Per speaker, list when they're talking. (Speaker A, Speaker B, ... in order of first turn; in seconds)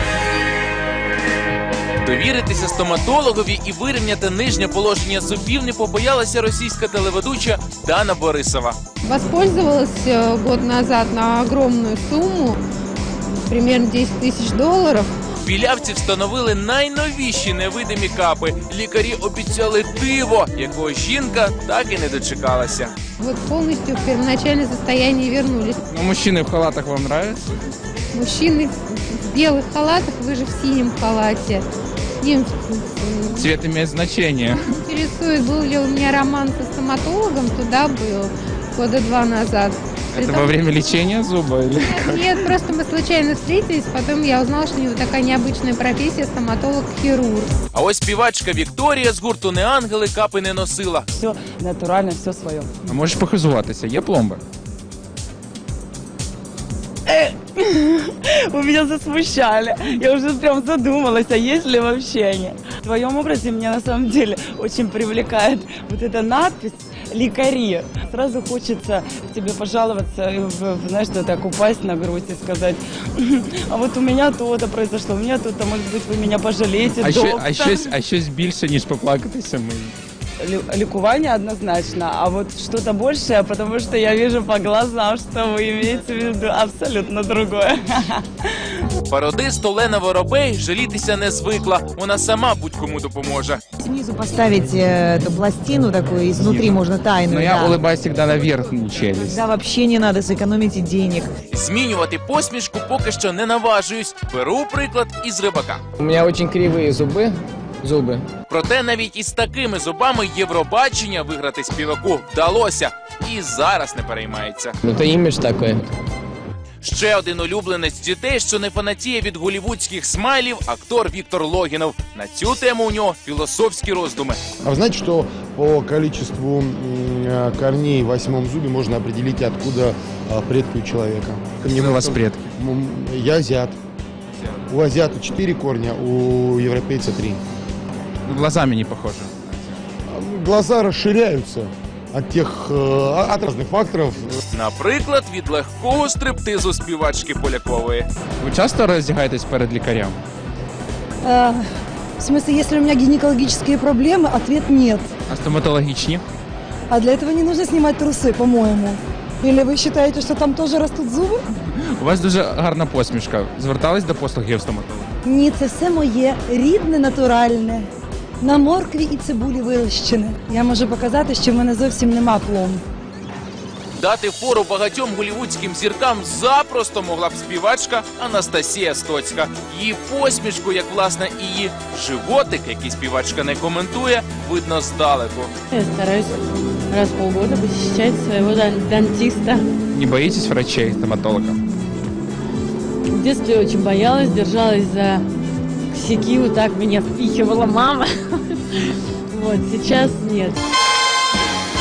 Speaker A: 2.0-8.8, 15.4-22.9, 47.7-51.1, 89.1-93.6, 101.5-105.8, 108.5-114.7, 116.8-124.4, 144.5-148.1, 174.0-185.5
Speaker B: 9.0-12.6, 13.3-15.1, 23.2-25.8, 28.1-31.6, 32.2-33.5, 34.8-40.6, 41.8-47.5
Speaker C: 25.9-27.4, 33.3-34.8, 40.1-42.4, 52.9-54.4, 77.0-79.9, 96.4-99.4, 131.7-132.4, 138.2-139.5, 148.4-150.2, 155.3-156.2, 162.0-165.1, 189.9-191.6
Speaker D: 51.1-52.8, 57.1-77.9, 80.4-88.5
Speaker E: 93.8-97.8, 99.2-101.3
Speaker F: 106.0-108.2, 114.8-115.9
Speaker G: 124.6-133.8, 134.7-137.4, 140.1-144.4
Speaker H: 151.2-151.6, 152.2-155.1, 156.9-161.4, 165.2-167.9, 168.4-172.8
Speaker I: 185.7-186.3, 186.9-189.6, 193.1-195.2, 195.9-198.8, 199.3-200.6